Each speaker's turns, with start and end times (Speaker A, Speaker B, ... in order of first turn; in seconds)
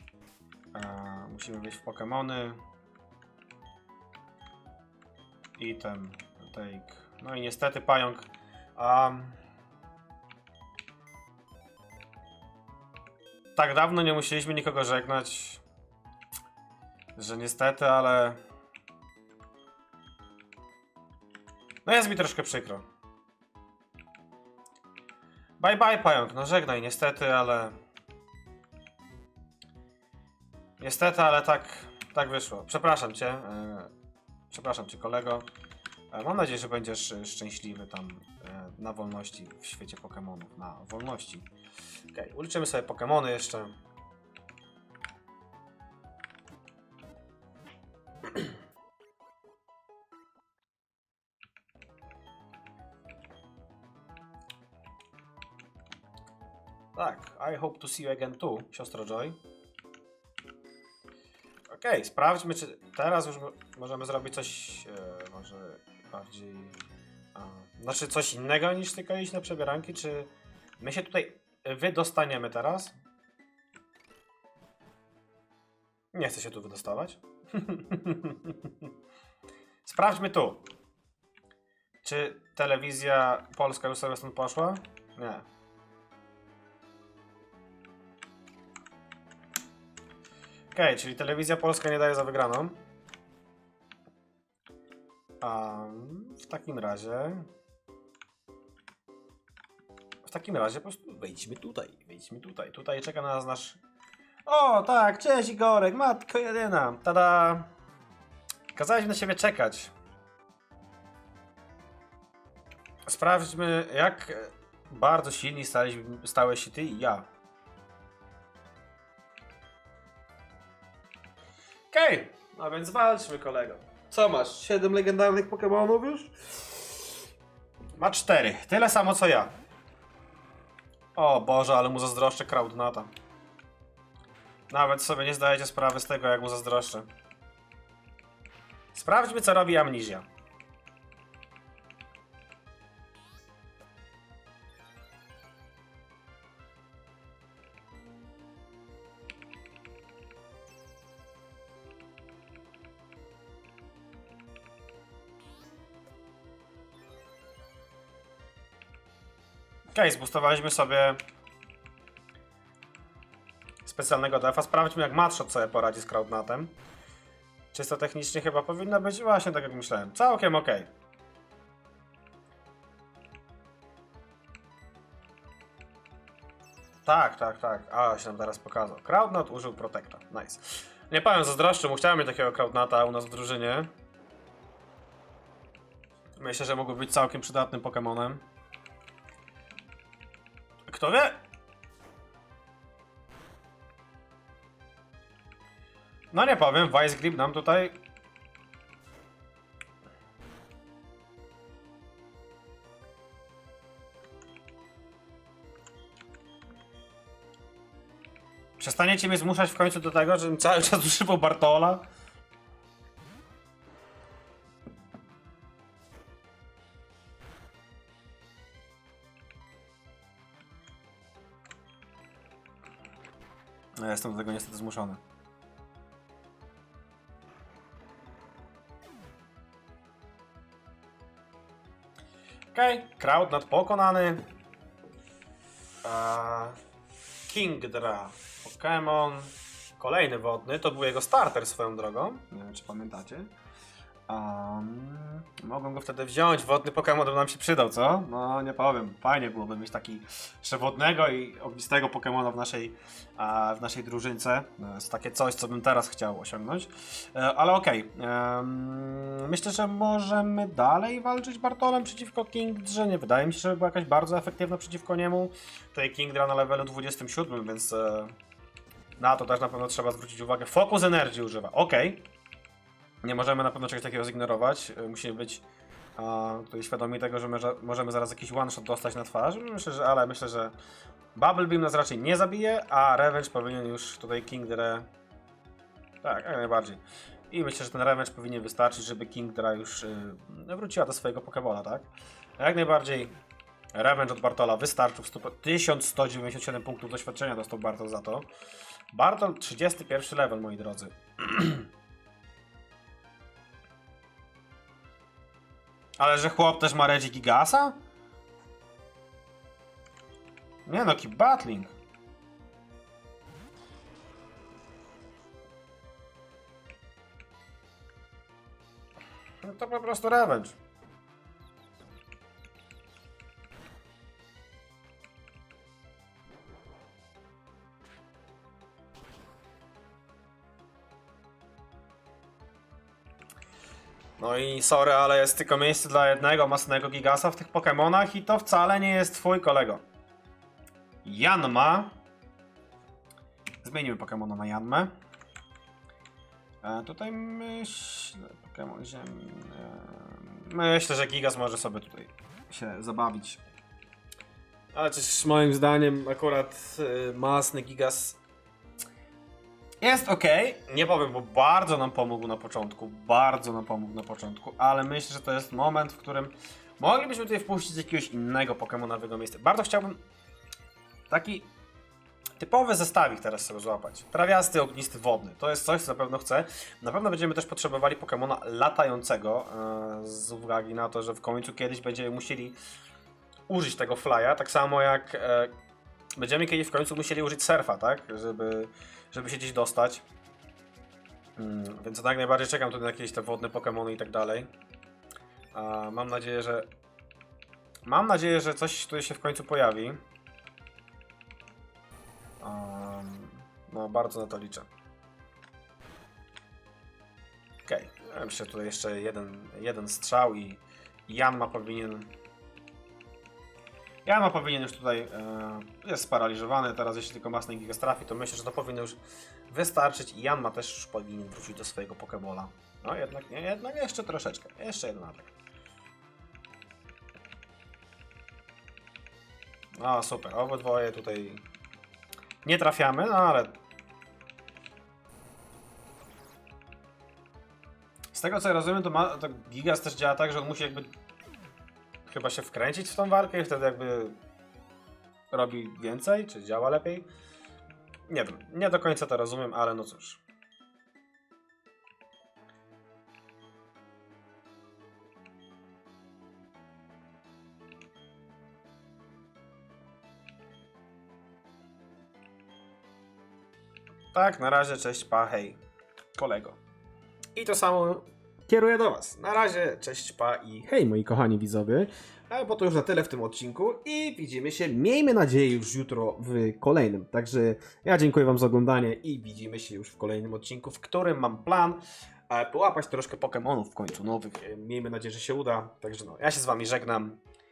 Speaker A: 0.7-2.6, 5.6-9.4, 13.6-15.6, 17.2-18.4, 21.9-22.8, 25.6-27.8, 30.8-33.9, 34.5-35.5, 36.1-41.5, 42.1-43.7, 57.0-59.4, 61.7-66.8, 67.3-73.0, 76.1-78.6, 79.8-80.6, 82.0-85.5, 90.7-92.8, 95.4-97.5, 100.2-103.8, 104.5-107.7, 108.7-109.9, 113.1-117.3, 121.9-126.3, 128.0-129.5, 131.2-133.1, 134.7-137.1, 138.9-140.2, 159.9-161.2, 163.8-166.7, 167.7-170.9, 177.1-183.9, 186.4-188.4, 190.9-191.4, 196.3-197.9, 208.8-212.0, 224.0-225.2, 232.7-234.4, 236.0-236.8, 237.5-243.5, 244.3-268.3, 269.2-272.2, 273.2-275.6, 276.2-280.7, 281.4-285.1, 286.2-293.4, 293.9-298.5, 299.1-301.9, 306.2-308.0, 310.9-311.9, 319.6-320.8, 334.4-340.0, 341.2-342.1, 343.8-345.1, 346.8-353.6, 354.9-358.4, 360.0-370.2, 371.3-371.7, 372.6-382.8, 383.7-385.7, 386.4-390.2, 391.6-394.7, 395.7-396.9, 398.1-400.2, 402.6-404.9, 407.9-412.3, 414.3-425.5, 430.0-431.6, 432.6-433.7, 438.3-441.1, 442.3-444.4, 445.5-447.3, 448.3-450.4, 464.3-465.8, 466.4-466.8, 467.6-487.4